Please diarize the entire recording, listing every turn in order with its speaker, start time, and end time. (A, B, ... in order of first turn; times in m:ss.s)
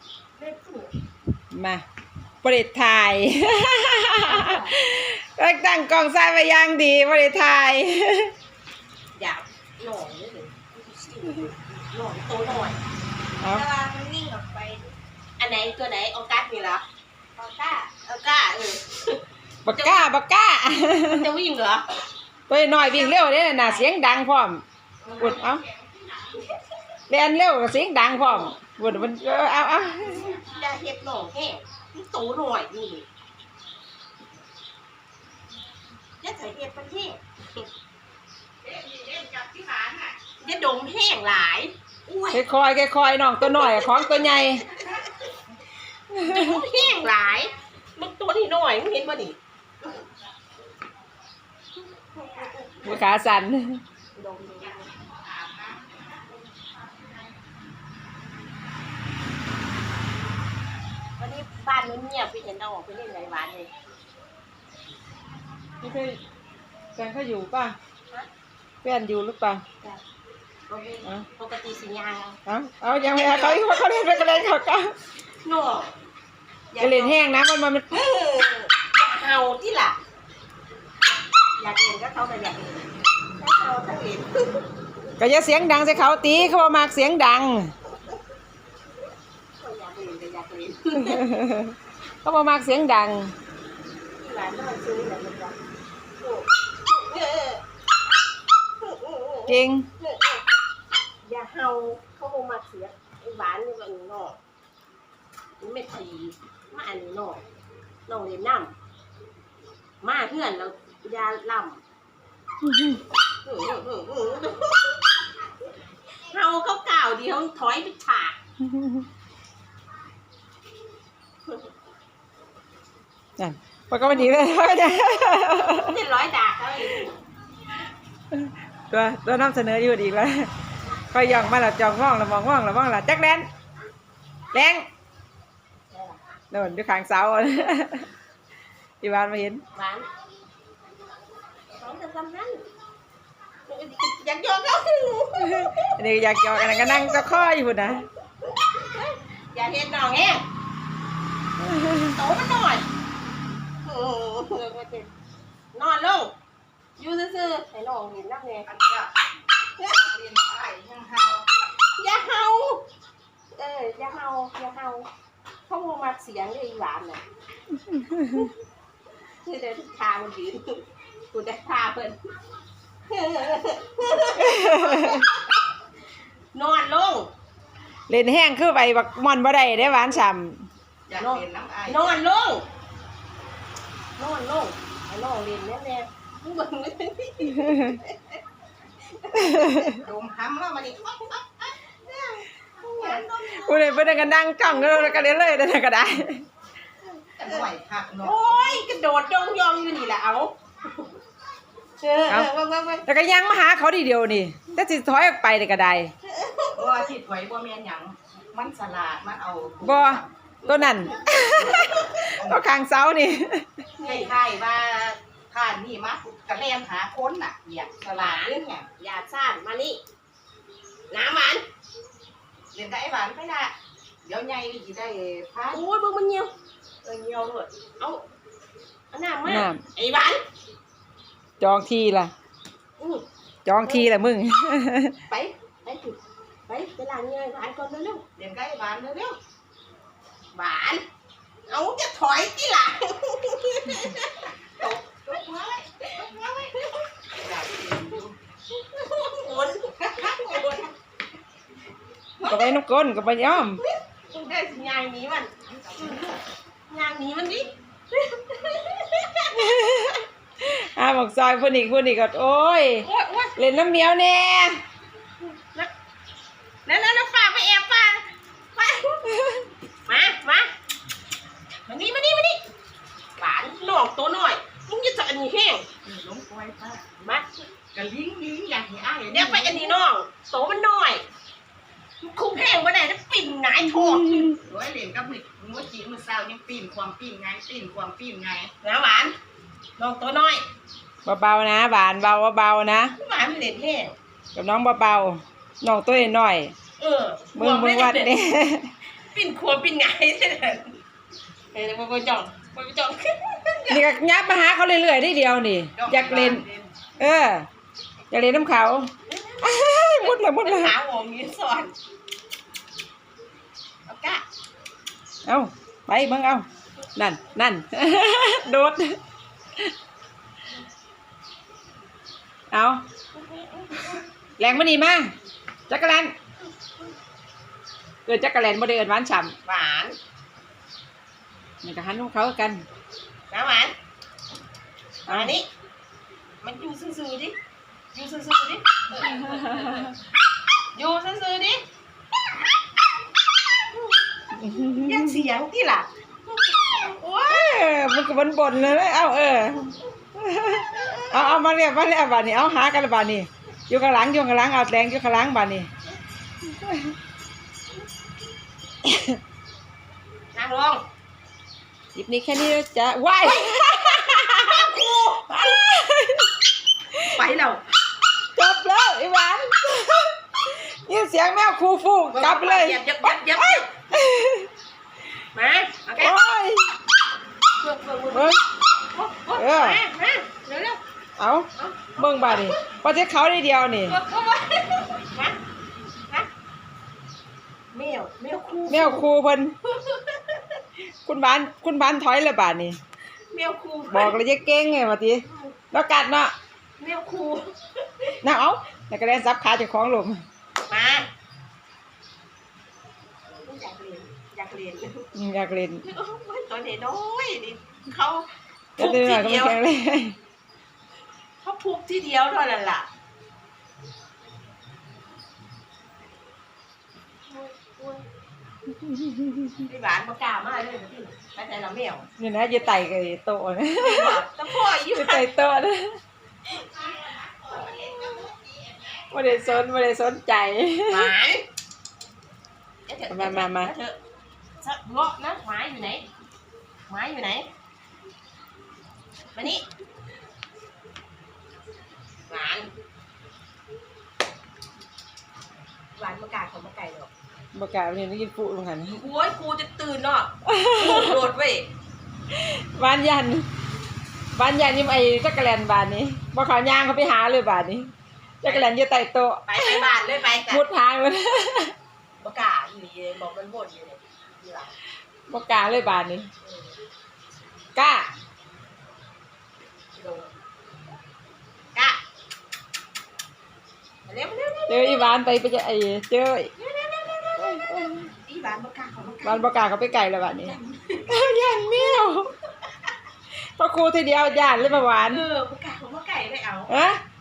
0:00.4-0:00.9 A
0:01.5-0:01.8 B
0:02.4-0:08.3 B
0:04.2-0:04.7 A
0:09.2-0:12.8 A
0:13.4-0:13.6 B
0:13.5-0:16.8 A
0:17.4-0:20.1 A
0:19.6-0:21.3 B
0:21.0-0:22.1 A
0:22.5-0:24.6 B
0:22.8-0:23.9 A
0:25.0-0:26.1 C
0:25.2-0:25.6 B
0:27.1-0:30.3 B
0:30.1-0:33.1 A
0:36.2-0:37.7 A
0:38.6-0:40.2 C
0:40.4-0:42.4 A
0:42.3-0:44.6 B
0:43.4-0:44.0 A
0:46.1-0:49.4 A
0:46.1-0:46.6 B
0:52.0-0:53.0 A
0:52.8-0:53.8 B
0:54.2-0:54.9 A
0:54.6-0:57.4 C
1:01.2-1:03.7 A
1:05.8-1:06.2 B
1:07.0-1:07.8 B
1:08.8-1:09.6 B
1:10.7-1:12.4 A
1:12.5-1:15.0 B
1:13.2-1:14.2 A
1:15.4-1:15.9 A
1:16.7-1:17.2 A
1:16.8-1:18.0 B
1:17.9-1:20.0 A
1:21.6-1:24.7 A
1:25.2-1:27.7 B
1:29.6-1:31.3 A
1:31.1-1:33.3 B
1:34.2-1:35.6 A
1:36.2-1:37.6 A
1:38.8-1:40.4 A
1:39.5-1:39.9 B
1:41.2-1:44.4 A
1:45.6-1:47.4 A
1:48.1-1:48.7 A
1:50.0-1:51.8 A
1:52.6-1:53.0 B
1:53.4-1:55.1 A
1:56.3-1:58.4 A
1:58.6-1:59.1 B
2:03.4-2:06.0 B
2:04.1-2:07.2 A
2:08.3-2:10.5 B
2:11.1-2:13.5 B
2:14.5-2:14.9 B
2:15.9-2:16.2 A
2:16.5-2:18.1 B
2:19.0-2:19.6 B
2:19.7-2:20.1 A
2:21.7-2:22.7 A
2:23.7-2:25.9 A
2:25.4-2:28.1 B
2:26.5-2:27.3 A
2:28.6-2:30.4 A
2:31.6-2:32.1 B
2:31.9-2:32.9 A
2:33.8-2:35.1 A
2:35.7-2:36.4 A
2:37.0-2:38.7 A
2:38.7-2:39.2 C
2:39.8-2:41.5 C
2:42.0-2:42.8 A
2:43.5-2:45.1 A
2:45.7-2:47.2 A
2:47.9-2:48.5 B
2:49.4-2:52.2 A
2:53.1-2:55.6 A
2:54.3-2:55.3 B
2:56.5-2:57.3 A
2:58.1-3:00.7 B
3:01.1-3:02.2 C
3:01.2-3:02.7 A
3:04.2-3:08.4 A
3:07.6-3:08.0 B
3:09.1-3:10.0 A
3:09.4-3:09.9 B
3:09.9-3:11.8 C
3:12.0-3:15.4 A
3:13.2-3:16.5 B
3:17.4-3:18.6 C
3:18.2-3:21.1 A
3:22.0-3:23.1 A
3:23.1-3:26.1 B
3:26.3-3:27.0 A
3:26.8-3:30.3 C
3:29.8-3:33.7 B
3:30.7-3:32.0 A
3:32.4-3:32.6 C
3:34.0-3:34.4 A
3:34.0-3:38.8 C
3:38.1-3:40.0 A
3:41.1-3:41.6 A
3:42.7-3:43.7 C
3:44.2-3:45.8 C
3:45.7-3:46.5 A
3:47.0-3:48.2 A
3:49.1-3:50.4 A
3:49.5-3:49.8 B
3:51.6-3:52.3 B
3:53.0-3:53.2 A
3:53.6-3:55.2 B
3:53.8-3:54.1 A
3:55.3-3:58.2 A
3:58.4-3:59.4 C
4:00.5-4:01.0 A
4:01.7-4:04.5 A
4:04.8-4:06.8 C
4:07.3-4:08.4 C
4:08.7-4:10.9 A
4:10.2-4:10.7 C
4:12.4-4:13.8 B
4:13.8-4:16.3 A
4:15.9-4:16.4 C
4:16.9-4:19.6 A
4:19.5-4:24.8 B
4:23.0-4:23.5 A
4:26.9-4:30.7 A
4:31.9-4:32.6 A
4:33.4-4:35.9 A
4:36.0-4:37.1 C
4:37.2-4:37.5 A
4:37.9-4:40.0 C
4:39.3-4:41.2 A
4:42.2-4:44.6 A
4:44.5-4:48.7 C
4:48.8-4:49.4 A
4:50.0-4:50.6 A
4:51.2-4:53.2 B
4:53.2-4:54.2 A
4:54.6-4:56.7 B
4:57.0-4:58.3 A
4:57.6-4:58.9 B
4:59.3-5:01.0 A
5:01.7-5:04.1 A
5:03.9-5:06.6 B
5:06.0-5:06.9 C
5:07.2-5:07.7 B
5:08.3-5:09.1 B
5:09.3-5:12.0 A
5:09.6-5:10.9 B
5:14.1-5:14.4 A
5:15.4-5:19.2 B
5:22.7-5:23.0 B
5:23.3-5:24.2 A
5:24.6-5:25.3 B
5:25.9-5:26.3 B
5:28.3-5:29.5 B
5:29.6-5:30.2 A
5:31.8-5:32.8 B
5:33.5-5:34.0 A
5:35.3-5:35.6 B
5:35.3-5:35.7 A
5:36.6-5:37.6 A
5:38.1-5:40.3 A
5:39.2-5:40.1 B
5:40.9-5:41.8 A
5:43.5-5:44.2 A
5:44.5-5:45.4 B
5:44.8-5:47.9 A
5:47.4-5:55.9 B
5:51.0-5:51.4 A
5:56.7-5:57.2 B
5:59.0-5:59.4 B
6:00.5-6:01.0 A
6:02.2-6:06.5 B
6:03.4-6:05.8 A
6:07.1-6:07.4 B
6:07.3-6:07.8 A
6:08.6-6:14.7 B
6:12.3-6:13.9 A
6:15.5-6:16.4 A
6:16.2-6:16.9 B
6:17.8-6:21.0 A
6:18.3-6:18.6 B
6:19.6-6:20.0 B
6:21.4-6:24.2 B
6:21.8-6:22.8 A
6:24.1-6:25.6 A
6:27.9-6:29.3 A
6:28.9-6:29.8 B
6:29.8-6:30.8 A
6:31.2-6:33.0 B
6:33.5-6:34.4 A
6:34.1-6:36.5 B
6:37.0-6:38.3 A
6:38.4-6:40.4 B
6:40.9-6:41.3 A
6:43.6-6:45.3 A
6:45.4-6:46.0 B
6:46.0-6:49.8 A
6:49.0-6:50.4 B
6:51.6-6:53.1 A
6:57.5-6:58.3 A
6:59.0-6:59.8 B
6:59.8-7:02.3 A
7:02.4-7:06.2 B
7:04.0-7:05.5 A
7:06.7-7:07.2 A
7:06.8-7:09.4 C
7:07.7-7:08.5 A
7:09.3-7:11.3 B
7:11.1-7:11.6 A
7:13.1-7:14.2 A
7:13.3-7:13.9 B
7:14.8-7:16.3 A
7:17.1-7:17.7 A
7:19.6-7:19.9 A
7:22.5-7:22.9 A
7:26.2-7:27.3 A
7:27.7-7:29.2 B
7:29.1-7:31.9 A
7:30.6-7:31.4 B
7:32.5-7:33.7 B
7:34.5-7:38.1 B
7:38.6-7:40.1 B
7:38.6-7:38.9 A
7:39.7-7:40.8 A
7:40.7-7:42.0 B
7:42.4-7:44.9 A
7:45.5-7:46.5 B
7:46.6-7:46.9 A
7:48.0-7:48.3 B
7:50.2-7:50.5 A
7:51.9-7:52.2 A
7:54.3-7:55.3 A
7:54.9-7:56.7 B
7:56.8-7:57.8 A
7:57.6-7:58.3 B
7:58.4-7:59.7 A
7:59.4-8:00.8 B
8:00.6-8:01.4 A
8:01.3-8:02.5 B
8:03.8-8:05.4 B
8:05.3-8:07.0 A
8:06.9-8:07.2 B